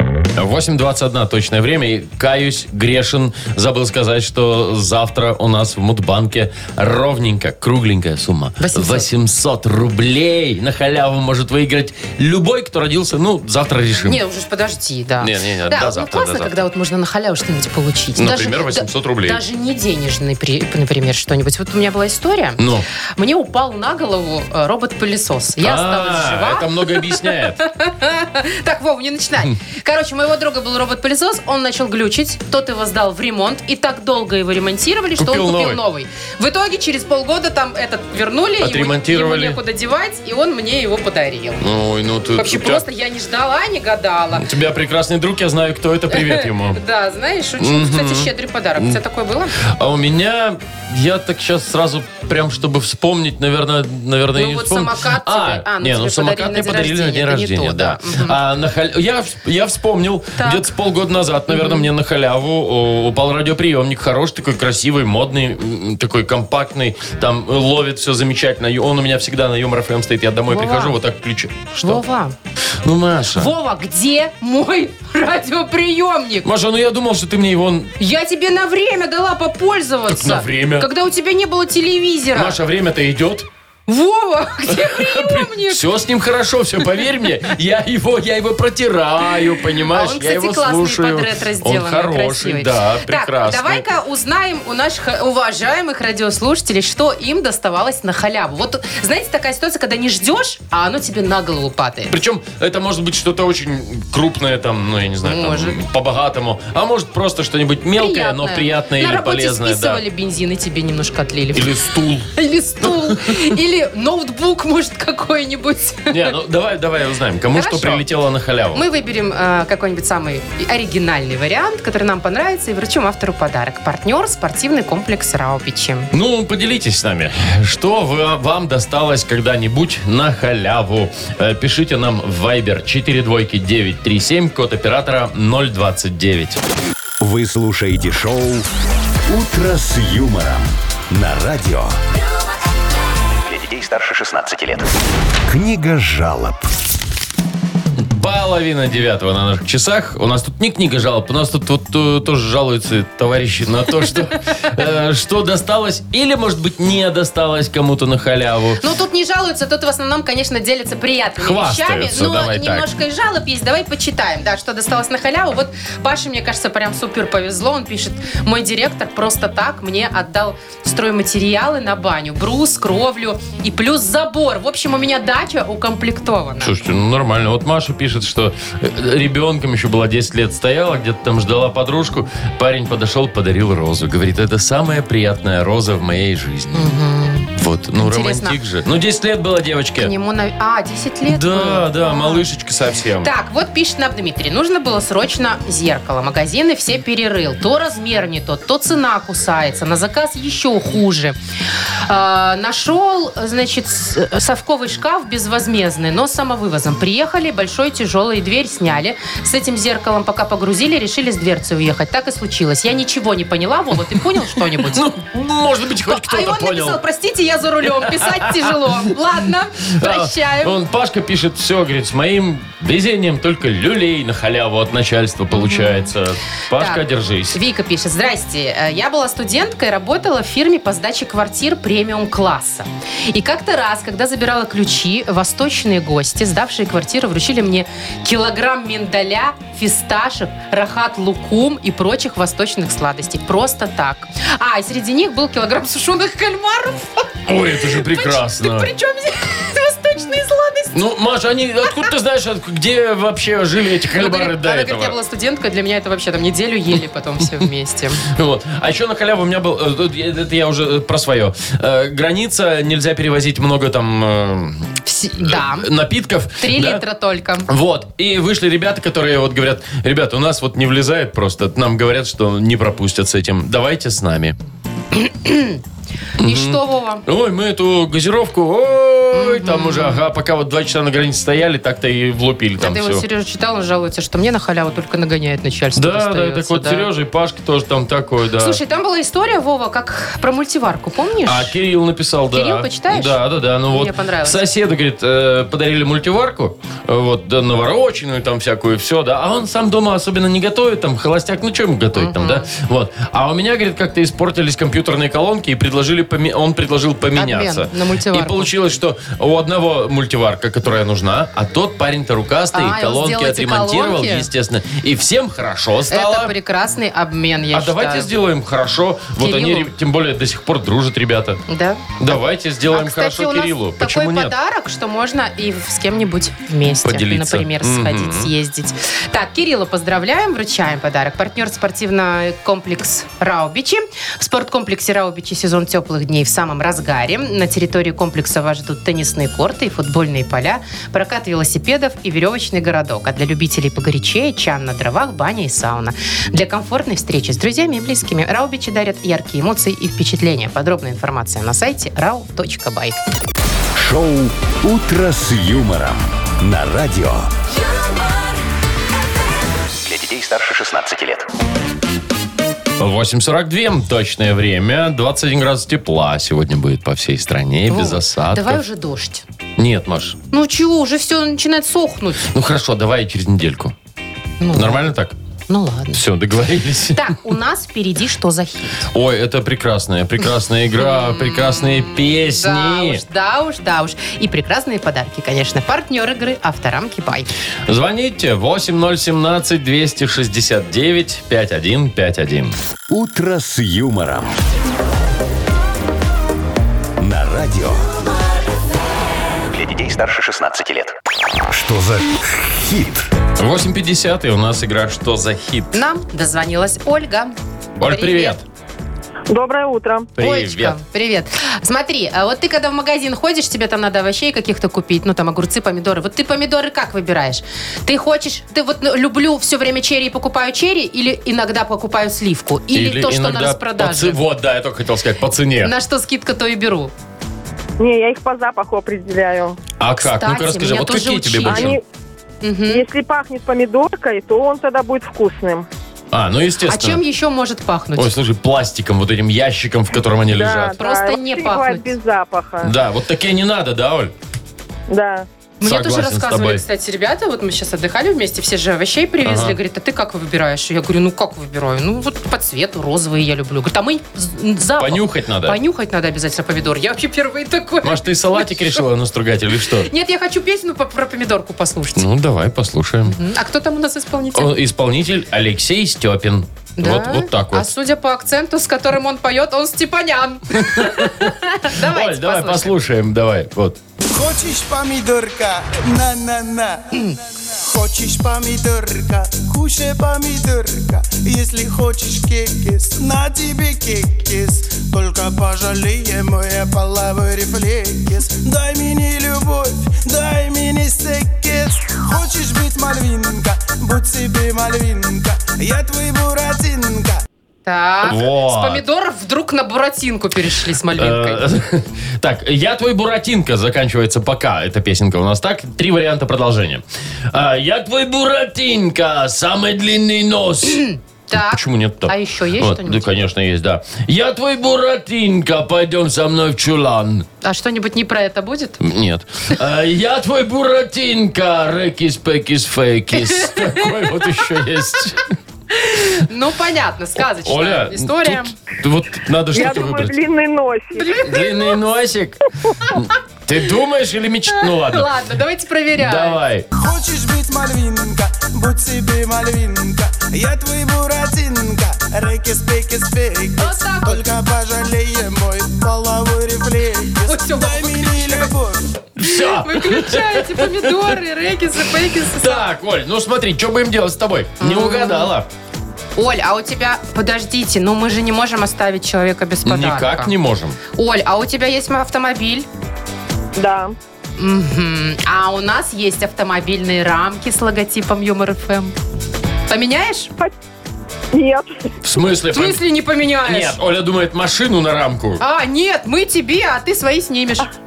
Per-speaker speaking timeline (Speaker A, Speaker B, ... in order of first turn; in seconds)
Speaker A: 0.3-14.2, 15.2-16.6, 18.1-19.4, 22.6-22.9, 25.6-27.6, 35.2-35.8, 38.6-39.6, 41.6-42.8, 44.3-46.8, 47.6-49.0, 49.6-72.0, 72.8-73.5, 76.4-77.9, 80.1-80.9, 82.3-83.5, 84.7-93.8, 102.1-110.0, 111.5-112.3, 112.8-113.5, 116.1-118.8, 126.1-136.6, 148.0-158.8, 161.4-162.8, 176.6-186.9, 187.5-190.1, 191.2-193.3, 214.7-217.0, 217.8-219.0, 219.9-227.6, 247.5-248.9, 250.9-255.1, 258.2-267.0, 267.7-274.6, 276.4-283.2, 285.9-288.8, 291.4-316.5, 317.7-321.6, 322.2-324.5, 327.0-328.5, 363.0-368.8, 369.8-370.4, 372.5-373.9, 374.7-375.4, 376.1-377.3, 379.1-383.2, 387.9-392.8, 403.6-406.0, 408.0-408.6, 410.4-411.0, 422.9-425.9, 430.0-432.0, 436.3-437.2, 438.1-441.0, 442.8-444.3, 445.8-446.8, 449.4-449.8, 455.0-455.8, 458.0-460.1, 462.1-463.4, 464.5-467.9, 470.7-474.0, 498.2-499.0, 501.1-517.5, 519.0-525.5, 527.6-530.3, 531.4-535.3, 536.2-536.9, 549.4-551.3, 552.4-555.7, 559.8-561.0, 572.2-573.0, 573.6-575.6
Speaker B: 8.6-9.1, 14.0-22.6, 23.1-41.6, 42.4-44.5, 46.1-49.6, 54.4-58.4, 60.4-60.6, 61.5-61.9, 70.5-71.0, 71.8-72.3, 73.3-76.5, 78.0-82.6, 83.9-85.8, 89.9-102.1, 105.2-105.8, 108.0-111.7, 112.3-116.3, 117.5-118.0, 118.7-126.1, 158.8-176.7, 186.7-188.6, 190.0-192.4, 193.2-201.3, 202.0-215.1, 216.1-220.8, 225.5-226.1, 226.7-250.9, 254.2-258.2, 265.0-265.9, 266.6-267.7, 275.1-275.8, 276.4-277.2, 279.3-280.2, 282.8-287.1, 288.6-291.8, 292.5-294.6, 302.1-302.7, 307.3-308.7, 312.7-314.5, 316.1-318.3, 319.4-319.9, 321.7-353.1, 367.9-369.4, 370.5-372.5, 374.6-375.1, 375.7-376.2, 377.1-379.1, 381.0-387.5, 405.9-407.5, 408.1-408.6, 410.4-424.4, 425.8-427.1, 430.2-432.0, 432.6-433.0, 436.9-438.3, 441.0-442.1, 445.8-459.0, 460.1-462.2, 463.2-464.7, 467.0-472.9, 497.9-501.6, 510.8-513.3, 517.6-519.0, 523.4-524.1, 525.9-528.7, 531.2-531.9, 534.7-536.6, 543.8-544.4, 547.4-548.7, 549.4-552.9, 554.8-555.5, 556.4-560.5, 561.1-562.9, 564.6-569.1, 569.9-570.5, 572.7-574.0, 575.6-577.9
Speaker C: 137.2-138.7, 139.3-142.0, 143.7-144.6, 145.4-146.7, 353.9-357.5, 360.2-361.2, 393.1-394.6, 397.2-398.1, 399.8-401.1, 401.7-403.3
Speaker D: 143.5-144.8, 360.1-361.4, 399.8-401.0
Speaker E: 409.5-410.3, 428.0-429.8, 431.7-432.0, 432.9-435.9, 440.5-442.9, 445.1-445.5, 529.7-531.3, 563.8-564.1, 571.5-572.1
Speaker F: 474.3-497.4, 536.9-549.1